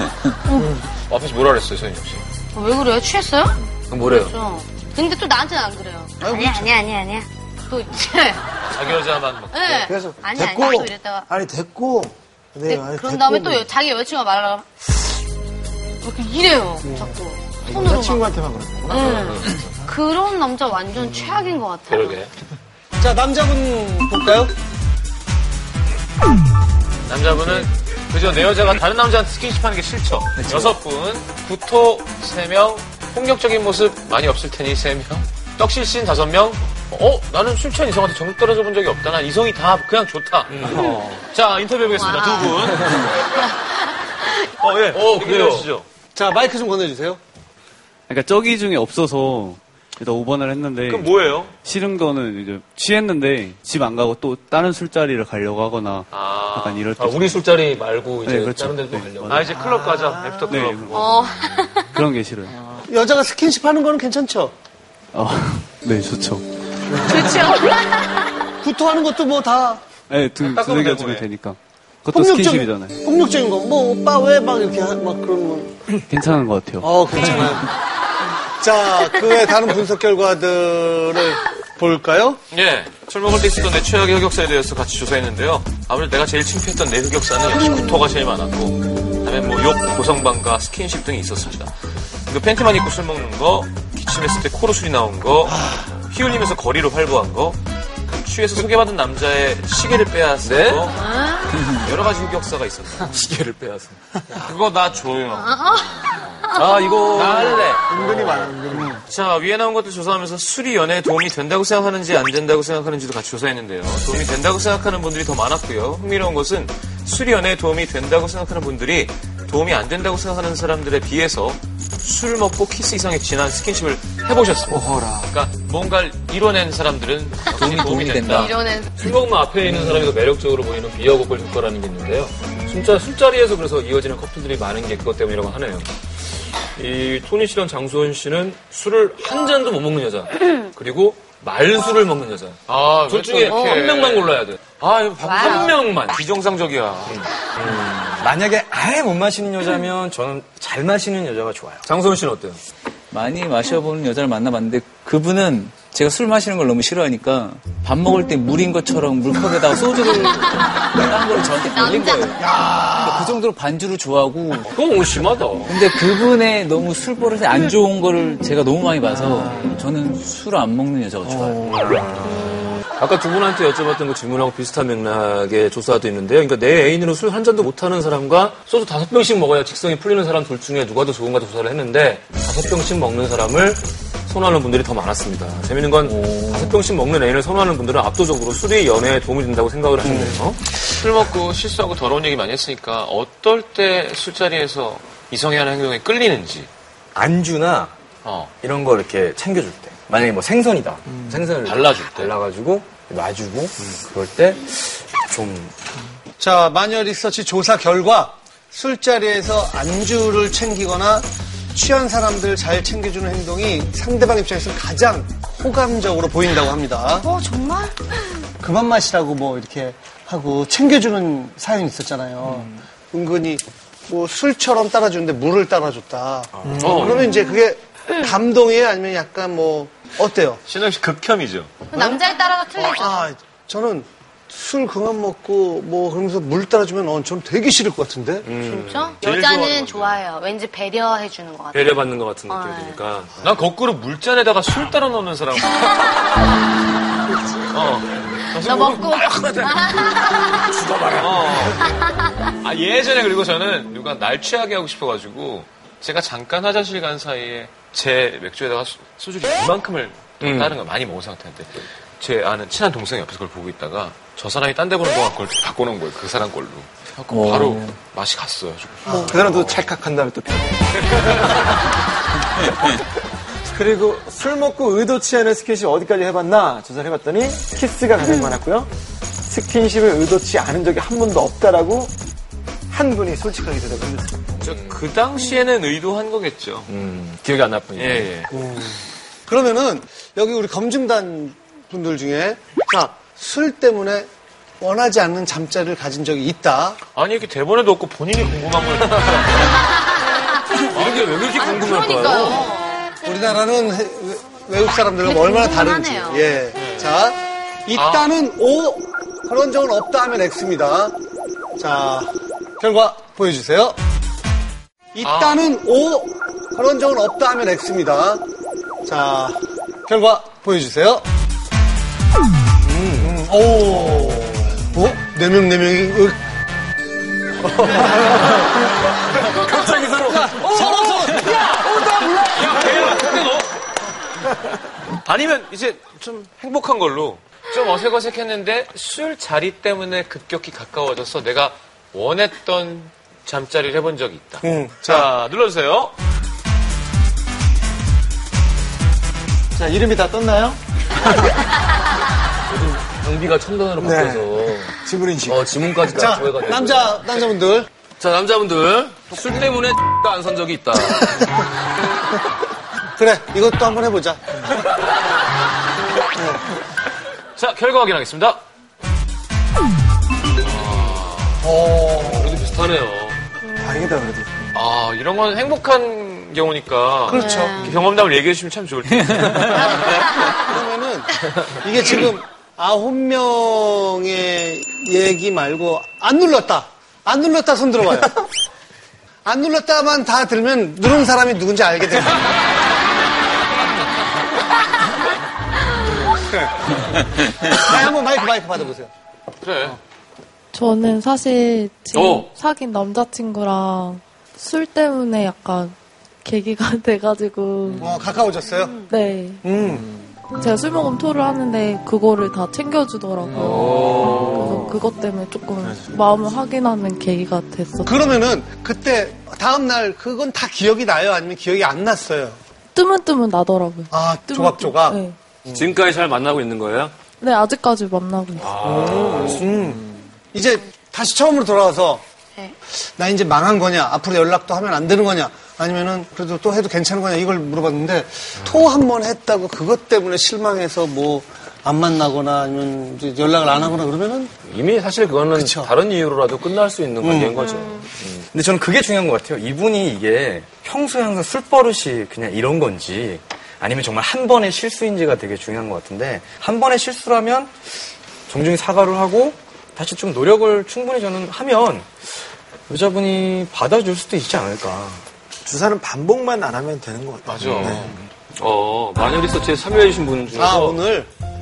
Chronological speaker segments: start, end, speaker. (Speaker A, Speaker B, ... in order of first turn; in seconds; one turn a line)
Speaker A: 0.5-0.8
Speaker B: 1.1-2.0
Speaker C: 1.7-2.2
Speaker A: 2.5-8.4
Speaker C: 3.9-4.3
Speaker D: 6.2-6.7
Speaker B: 8.7-9.9
Speaker A: 9.5-11.3
Speaker E: 9.8-13.7
Speaker A: 12.7-14.8
Speaker A: 16.0-18.3
Speaker E: 16.8-19.2
Speaker A: 18.9-22.2
Speaker B: 18.9-19.7
Speaker C: 21.9-22.3
Speaker D: 23.0-24.5
Speaker B: 27.1-43.3
Speaker F: 30.4-30.8
Speaker A: 40.8-41.0
Speaker A: 41.9-42.7
Speaker A: 43.3-44.3
Speaker B: 44.6-45.9
Speaker C: 44.9-45.7
Speaker D: 46.1-47.2
Speaker G: 48.1-57.5
Speaker B: 50.8-51.5
Speaker B: 56.1-56.9
Speaker C: 57.0-59.5
Speaker G: 58.2-59.8
Speaker B: 59.3-61.1
Speaker G: 60.5-61.1
Speaker A: 60.9-61.9
Speaker G: 61.9-62.5
Speaker D: 62.9-64.5
Speaker G: 65.1-66.5
Speaker A: 66.9-68.2
Speaker D: 68.6-69.8
Speaker G: 70.1-73.0
Speaker B: 70.5-71.2
Speaker D: 72.1-75.8
Speaker G: 76.0-77.4
Speaker D: 76.8-77.7
Speaker D: 78.6-82.4
Speaker B: 82.5-91.7
Speaker B: 92.3-101.0
Speaker C: 100.4-100.9
Speaker A: 100.9-101.6
Speaker B: 101.7-103.1
Speaker C: 103.0-104.0
Speaker B: 104.4-106.4
Speaker A: 105.3-107.0
Speaker C: 106.5-107.8
Speaker B: 107.1-128.5
Speaker E: 107.9-109.0
Speaker E: 124.7-125.3
Speaker H: 127.5-128.5
Speaker A: 128.2-128.9
Speaker C: 128.9-135.9
Speaker A: 132.4-132.9
Speaker C: 136.7-144.6
Speaker B: 142.7-147.2
Speaker A: 143.5-143.8
Speaker C: 145.2-146.2
Speaker A: 145.2-145.8
Speaker C: 147.1-148.2
Speaker F: 148.2-151.8
Speaker C: 151.8-152.6
Speaker H: 153.1-164.7
Speaker A: 161.7-162.4
Speaker D: 162.5-163.4
Speaker C: 164.7-165.7
Speaker H: 165.7-172.3
Speaker E: 171.2-171.5
Speaker A: 172.3-172.7
Speaker C: 173.0-190.6
Speaker H: 186.0-186.7
Speaker B: 190.9-196.7
Speaker F: 197.1-197.9
Speaker B: 198.2-198.5
Speaker F: 198.6-205.7
Speaker B: 201.6-202.3
Speaker D: 206.4-217.3
Speaker A: 217.2-218.2
Speaker D: 218.6-230.6
Speaker E: 226.6-227.2
Speaker B: 226.8-227.2
Speaker A: 227.2-227.6
Speaker B: 230.7-231.7
Speaker A: 231.9-233.3
Speaker D: 231.9-238.5
Speaker C: 238.4-239.2
Speaker A: 238.6-243.0
Speaker B: 239.2-240.2
Speaker C: 241.7-243.4
Speaker B: 243.4-246.1
Speaker B: 247.7-250.1
Speaker A: 248.6-250.8
Speaker B: 251.2-252.0
Speaker A: 251.8-252.2
Speaker B: 252.6-269.9
Speaker C: 260.4-260.7
Speaker H: 267.3-267.9
Speaker E: 269.0-271.6
Speaker E: 273.7-278.9
Speaker A: 278.2-278.6
Speaker E: 279.4-282.1
Speaker E: 282.9-284.4
Speaker B: 284.6-286.9
Speaker C: 284.6-285.0
Speaker C: 286.9-288.3
Speaker B: 288.0-288.5
Speaker D: 288.5-294.3
Speaker D: 294.8-297.0
Speaker B: 297.1-299.8
Speaker A: 300.0-300.6
Speaker C: 300.9-302.7
Speaker B: 300.9-301.4
Speaker A: 301.5-303.2
Speaker B: 302.2-302.6
Speaker D: 303.2-311.1
Speaker A: 305.2-306.5
Speaker B: 306.8-307.1
Speaker B: 307.9-308.4
Speaker D: 311.8-314.0
Speaker D: 315.1-318.4
Speaker B: 315.2-315.6
Speaker D: 319.0-321.2
Speaker D: 323.2-326.4
Speaker D: 327.8-328.5
Speaker D: 329.8-331.6
Speaker B: 332.5-333.7
Speaker B: 335.2-346.1
Speaker D: 344.7-345.3
Speaker E: 349.7-350.8
Speaker C: 352.7-354.9
Speaker E: 354.0-355.6
Speaker C: 355.4-357.2
Speaker D: 356.1-357.9
Speaker C: 358.2-361.5
Speaker D: 363.1-364.9
Speaker B: 367.6-368.6
Speaker B: 370.6-371.7
Speaker D: 371.7-372.6
Speaker C: 372.1-373.4
Speaker E: 373.8-374.7
Speaker B: 374.7-380.3
Speaker A: 377.3-377.9
Speaker D: 377.3-377.9
Speaker D: 379.7-388.3
Speaker A: 380.0-380.5
Speaker D: 389.4-392.6
Speaker D: 396.4-396.9
Speaker D: 397.7-399.1
Speaker B: 399.6-400.0
Speaker I: 400.7-408.1
Speaker C: 402.1-402.5
Speaker D: 408.0-409.0
Speaker A: 408.6-409.1
Speaker I: 409.1-409.6
Speaker E: 409.6-410.1
Speaker D: 409.7-410.0
Speaker I: 410.6-418.4
Speaker H: 413.5-414.8
Speaker C: 413.8-414.6
Speaker D: 418.1-422.6
Speaker I: 422.9-425.4
Speaker D: 424.1-425.2
Speaker C: 425.7-427.1
Speaker I: 427.4-428.8
Speaker C: 428.6-429.9
Speaker E: 428.8-430.0
Speaker D: 430.5-432.2
Speaker D: 433.0-444.5
Speaker C: 444.6-448.4
Speaker D: 445.5-445.9
Speaker D: 447.2-447.6
Speaker A: 447.6-448.1
Speaker F: 448.5-457.8
Speaker F: 458.5-465.2
Speaker E: 465.6-468.1
Speaker B: 467.4-468.2
Speaker C: 467.6-468.0
Speaker C: 468.6-471.0
Speaker D: 470.5-471.3